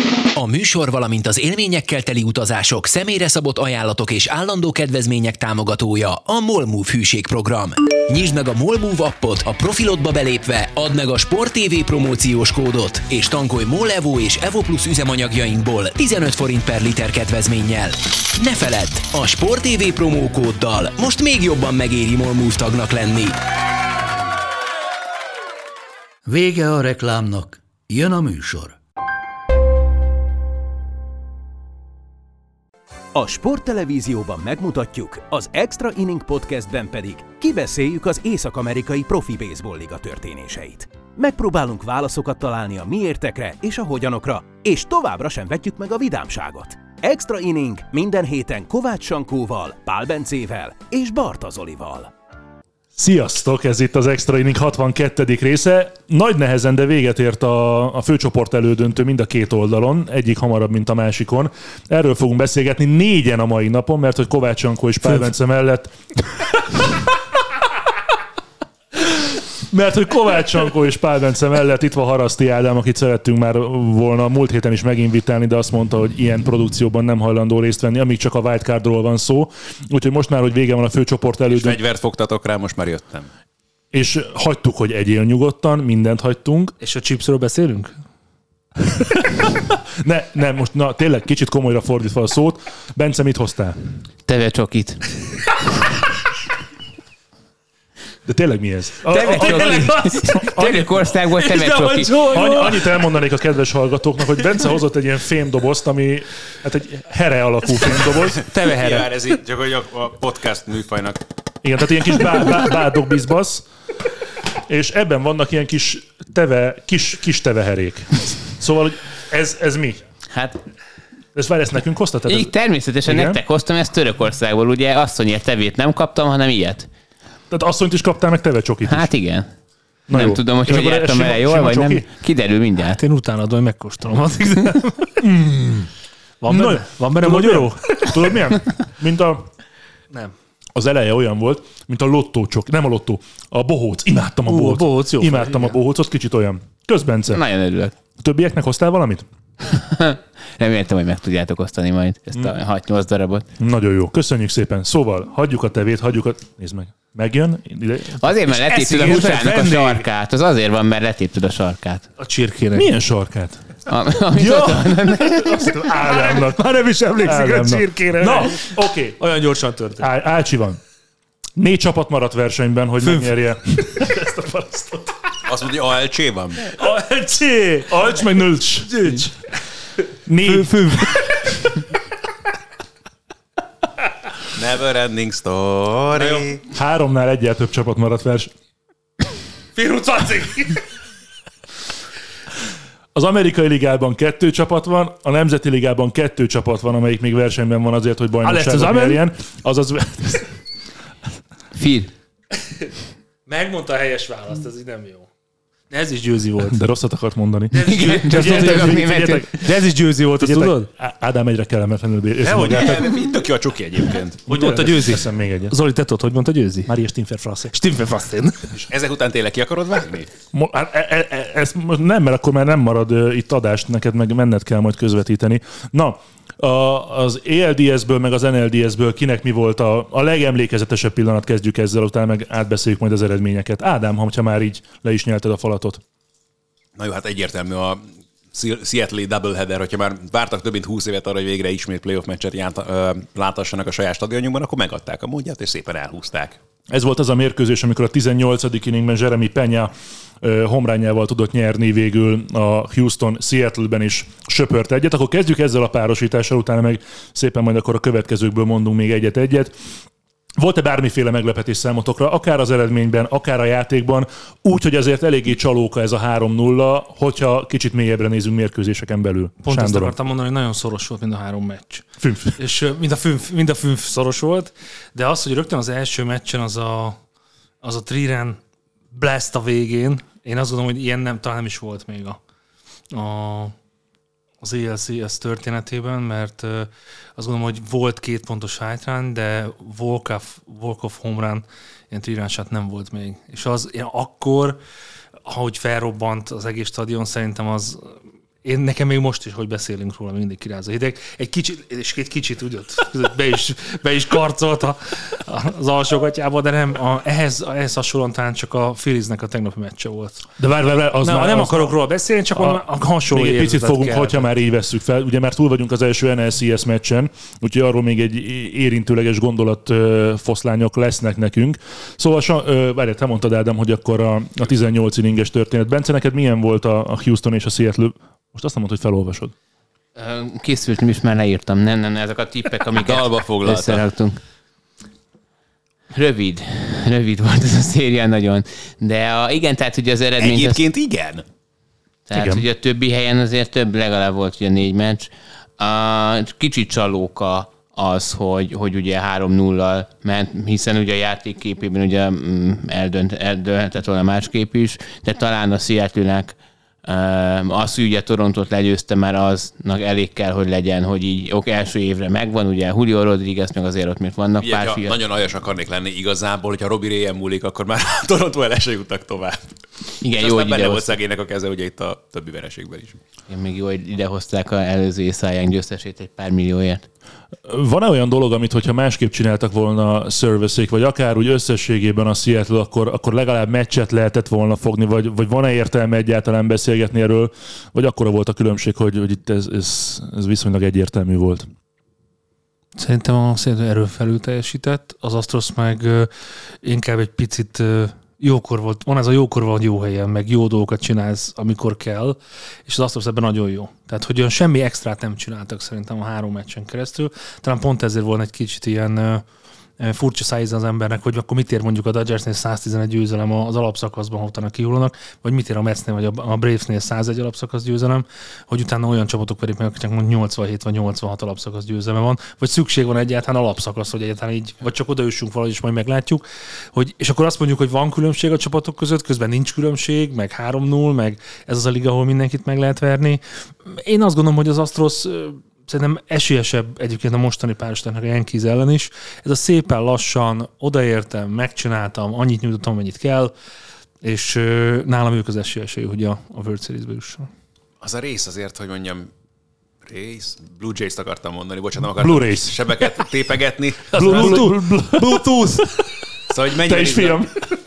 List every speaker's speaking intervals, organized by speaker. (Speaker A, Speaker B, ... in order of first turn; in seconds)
Speaker A: 0.3-23.4
Speaker B: 26.3-28.8
Speaker C: 33.1-52.1
Speaker D: 53.0-67.0, 69.0-81.8, 83.9-86.7, 88.8-93.9, 98.3-108.5, 111.6-113.7, 114.6-120.0, 121.3-122.5, 123.0-123.4, 127.5-129.1, 130.1-132.1, 135.2-135.9, 136.5-139.5, 140.8-147.4, 148.2-149.2, 153.6-160.0, 162.8-163.7, 164.3-169.2, 170.0-170.8, 171.6-175.1, 177.9-179.3, 180.3-181.7, 186.7-188.5, 193.2-200.5, 206.6-209.7, 210.4-213.1, 214.5-215.8, 216.9-217.7, 220.5-236.0, 246.9-259.7, 260.6-270.1, 272.2-272.6, 310.6-312.0, 312.6-329.5, 342.3-342.6, 377.7-391.7, 452.1-453.0, 454.1-455.5, 456.7-457.5
Speaker E: 81.5-83.3, 108.4-111.2, 175.5-176.6, 184.5-186.6, 212.4-214.5, 218.7-220.3, 237.0-246.6, 333.0-334.0, 340.4-341.4, 364.6-369.8, 370.4-373.2, 448.0-449.3, 450.1-454.6, 456.5-457.4
Speaker F: 86.8-87.9, 99.3-100.4, 101.4-103.0, 108.5-109.2, 132.8-135.3, 136.4-138.3, 144.5-145.8, 162.2-162.9, 165.9-170.1, 173.0-174.2, 176.7-178.0, 178.9-179.3, 180.4-181.8, 186.2-186.5, 189.8-190.8, 198.4-199.2, 203.5-205.3, 205.9-206.8, 207.7-210.9, 212.7-213.1, 214.5-216.9, 217.7-218.6, 269.6-272.1, 272.6-277.2, 277.8-278.6, 279.1-282.4, 283.1-283.8, 284.6-294.8, 295.5-310.5, 311.2-314.5, 393.0-396.3, 396.8-409.5, 410.0-443.5, 444.2-447.5, 454.1-456.1
Speaker G: 94.3-95.1, 99.1-102.3, 120.3-120.6, 122.3-126.9, 128.9-129.5, 130.1-133.0, 147.3-147.9, 149.7-153.5, 158.2-162.1, 163.9-165.7, 201.8-202.1, 207.8-209.6, 330.2-334.4, 336.1-340.8, 342.3-365.2, 370.2-371.2, 373.5-377.1